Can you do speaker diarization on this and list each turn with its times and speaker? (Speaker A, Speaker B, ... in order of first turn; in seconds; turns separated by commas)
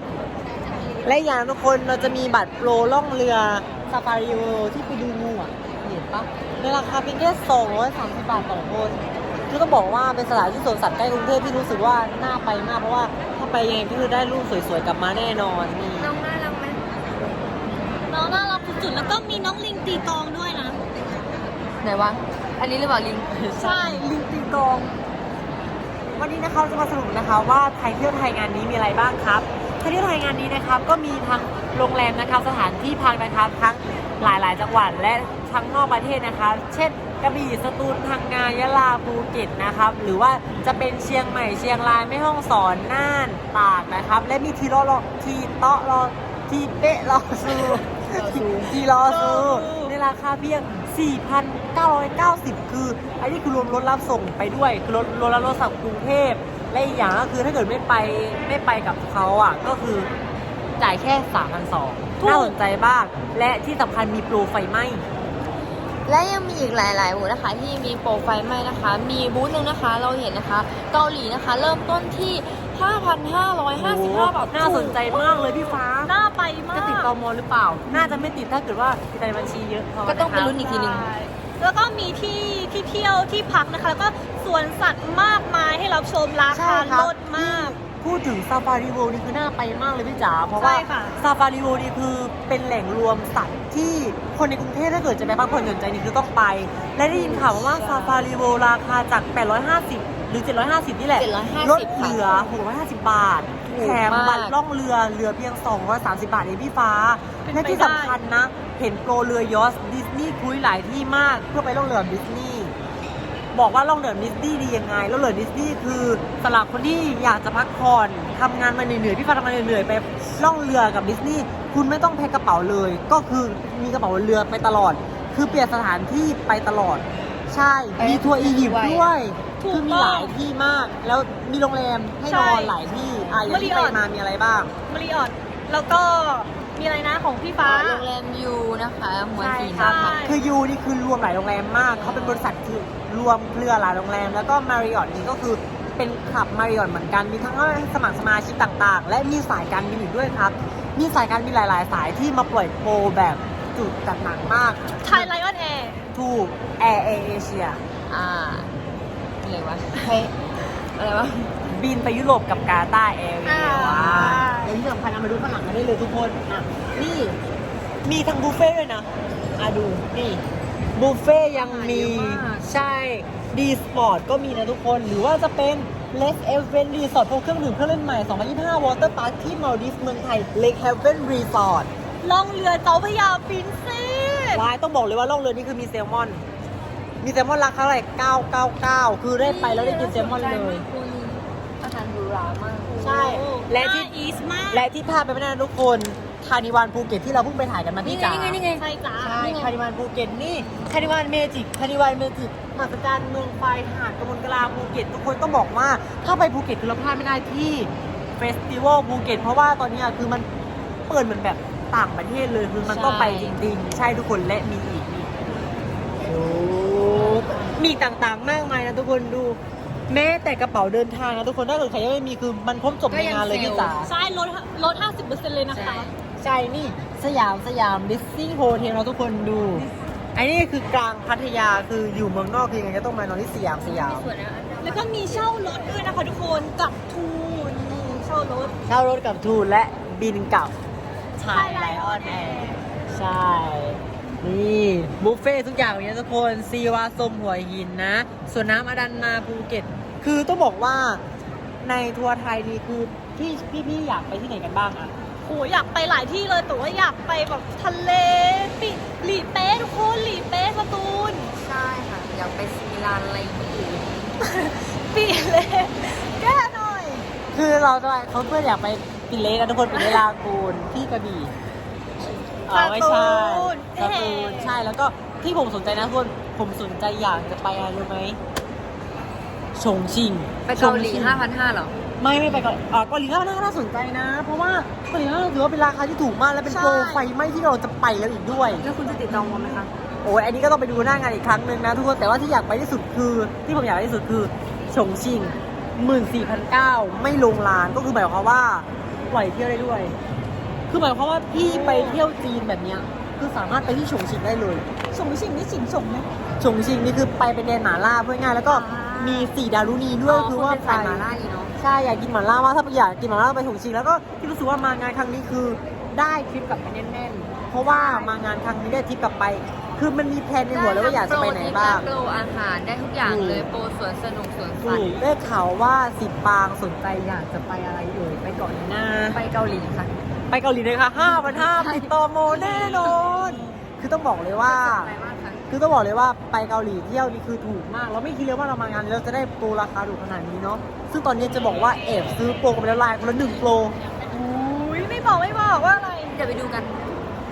Speaker A: 1.0-16.1, Speaker B: 16.0-16.8, Speaker C: 18.1-20.8, Speaker B: 21.8-24.1, Speaker A: 23.6-24.9, Speaker A: 26.1-60.1, Speaker C: 47.5-47.7, Speaker B: 48.1-49.9, Speaker C: 49.1-49.8, Speaker A: 60.8-65.0, Speaker C: 62.2-62.6, Speaker B: 66.0-74.9, Speaker A: 73.7-76.1, Speaker C: 74.6-77.1, Speaker A: 76.7-80.6, Speaker B: 78.0-78.3, Speaker B: 80.0-81.1, Speaker C: 80.5-87.8, Speaker A: 86.5-112.7, Speaker C: 90.6-91.2, Speaker B: 97.1-98.3, Speaker B: 101.2-102.5, Speaker B: 103.7-104.5, Speaker C: 107.5-108.2, Speaker A: 113.5-134.7, Speaker B: 128.0-129.1, Speaker C: 129.6-130.3, Speaker C: 132.2-132.8, Speaker B: 133.0-133.4, Speaker C: 133.5-134.0, Speaker C: 134.9-138.1, Speaker B: 137.6-140.2, Speaker A: 139.3-155.3, Speaker C: 139.8-140.5, Speaker B: 141.8-142.5, Speaker C: 155.0-156.0, Speaker A: 156.1-157.8, Speaker B: 158.1-158.7, Speaker B: 159.4-160.3, Speaker B: 160.9-161.5, Speaker A: 161.7-167.4, Speaker C: 163.4-164.8, Speaker B: 163.7-164.5, Speaker A: 168.0-170.4, Speaker A: 170.9-181.9, Speaker B: 171.5-172.7, Speaker C: 182.2-184.6, Speaker A: 184.5-186.4, Speaker A: 187.2-190.8, Speaker B: 189.4-193.4, Speaker C: 192.9-194.9, Speaker A: 193.0-194.1, Speaker A: 194.7-198.6, Speaker B: 198.0-198.8, Speaker C: 198.8-199.4, Speaker A: 199.2-210.5, Speaker B: 199.4-199.7, Speaker B: 200.5-201.1, Speaker A: 211.1-215.3, Speaker B: 212.8-213.6, Speaker A: 216.2-219.6, Speaker A: 220.1-224.1, Speaker B: 223.1-223.9, Speaker C: 224.0-226.1, Speaker B: 225.7-226.1, Speaker A: 226.4-234.3, Speaker B: 233.8-235.9, Speaker C: 234.8-238.7, Speaker A: 238.9-240.7, Speaker A: 241.4-251.2, Speaker C: 241.4-242.8, Speaker A: 251.8-255.1, Speaker C: 255.4-261.5, Speaker B: 261.6-264.1, Speaker C: 264.4-267.2, Speaker A: 267.5-271.5, Speaker C: 269.9-270.2, Speaker A: 272.7-278.4, Speaker C: 272.7-274.8, Speaker A: 279.8-281.4, Speaker B: 280.6-282.6, Speaker A: 282.2-288.8, Speaker B: 286.6-287.2, Speaker B: 288.7-289.9, Speaker C: 289.3-289.7, Speaker A: 290.2-300.1, Speaker A: 300.9-304.8, Speaker B: 301.6-302.2, Speaker C: 305.1-306.2, Speaker B: 305.2-306.2, Speaker A: 306.6-311.2, Speaker B: 308.6-309.5, Speaker B: 310.2-311.7, Speaker A: 311.8-322.1, Speaker B: 317.8-318.4, Speaker B: 320.7-325.2, Speaker A: 323.2-323.7, Speaker A: 324.8-329.4, Speaker B: 329.3-330.1, Speaker A: 330.5-335.1, Speaker B: 331.2-333.8, Speaker B: 334.6-335.6, Speaker A: 335.7-343.9, Speaker C: 344.3-346.3, Speaker B: 346.3-347.2